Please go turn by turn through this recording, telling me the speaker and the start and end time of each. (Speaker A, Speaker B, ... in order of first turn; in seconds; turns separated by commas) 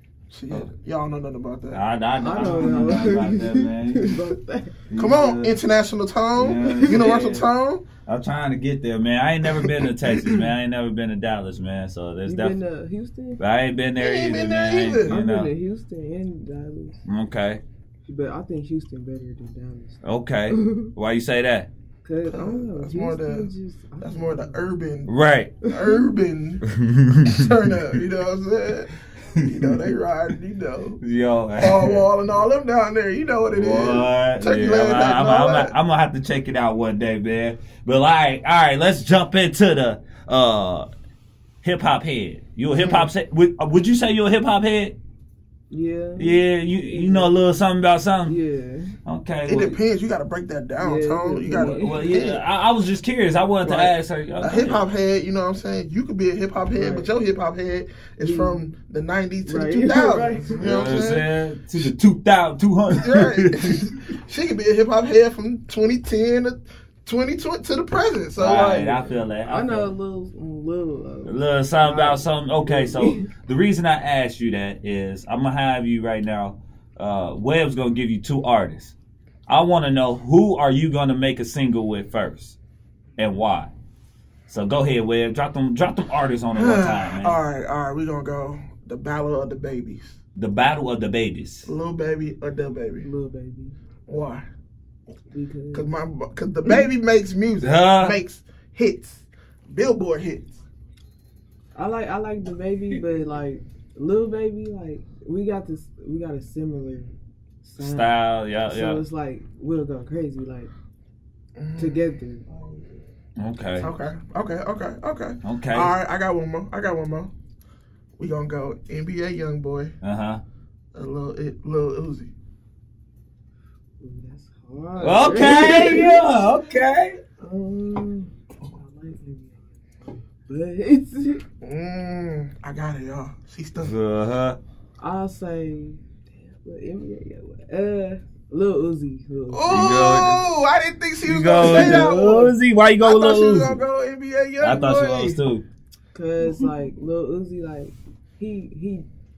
Speaker A: 0.3-1.8, Speaker B: 1.7-4.1, Speaker C: 2.2-4.7, Speaker B: 4.9-5.6, Speaker A: 5.0-7.8, Speaker B: 6.3-7.5, Speaker C: 6.6-7.0, Speaker B: 8.1-12.6, Speaker A: 9.5-10.5, Speaker C: 12.2-13.4, Speaker B: 13.4-15.5, Speaker A: 14.0-15.2, Speaker C: 15.1-17.0, Speaker B: 17.1-17.6, Speaker C: 18.0-20.9, Speaker B: 20.0-21.7, Speaker C: 22.0-24.6, Speaker A: 22.2-25.1, Speaker B: 25.1-25.6, Speaker A: 25.7-26.6, Speaker B: 26.7-27.5, Speaker A: 27.3-31.0, Speaker B: 31.0-32.1, Speaker A: 31.6-35.7, Speaker B: 33.5-40.9, Speaker B: 41.6-45.0, Speaker C: 42.7-43.1, Speaker C: 45.7-47.4, Speaker B: 46.2-48.4, Speaker C: 48.2-49.0, Speaker B: 49.0-49.8, Speaker A: 49.5-52.4, Speaker C: 50.8-52.2, Speaker B: 51.6-54.8, Speaker A: 53.6-61.3, Speaker C: 56.7-57.1, Speaker C: 58.2-58.6, Speaker C: 59.4-60.6, Speaker B: 60.6-63.8, Speaker A: 62.9-69.1, Speaker B: 68.4-69.9, Speaker C: 69.5-73.2, Speaker B: 71.2-78.9, Speaker B: 79.5-82.5, Speaker B: 83.2-83.7, Speaker B: 84.5-87.4, Speaker A: 86.5-90.2, Speaker B: 90.3-91.7, Speaker A: 91.7-93.1, Speaker C: 93.0-93.8, Speaker A: 94.1-94.5, Speaker C: 95.3-95.9, Speaker A: 95.7-100.5, Speaker B: 97.6-98.2, Speaker C: 101.7-107.1, Speaker C: 107.6-110.7, Speaker B: 107.8-109.0, Speaker A: 111.6-112.0, Speaker C: 111.8-112.5, Speaker A: 112.5-112.9, Speaker B: 113.4-113.9, Speaker A: 113.8-117.3, Speaker B: 115.4-115.9, Speaker A: 118.2-119.9, Speaker B: 120.0-120.4, Speaker A: 120.9-122.3, Speaker C: 124.0-126.3, Speaker B: 125.0-127.2, Speaker C: 127.4-131.4, Speaker A: 131.6-133.9, Speaker B: 133.8-134.6, Speaker C: 135.0-139.9, Speaker A: 139.5-145.4, Speaker B: 139.7-140.4, Speaker B: 141.2-143.8, Speaker B: 144.6-145.6, Speaker C: 146.1-149.1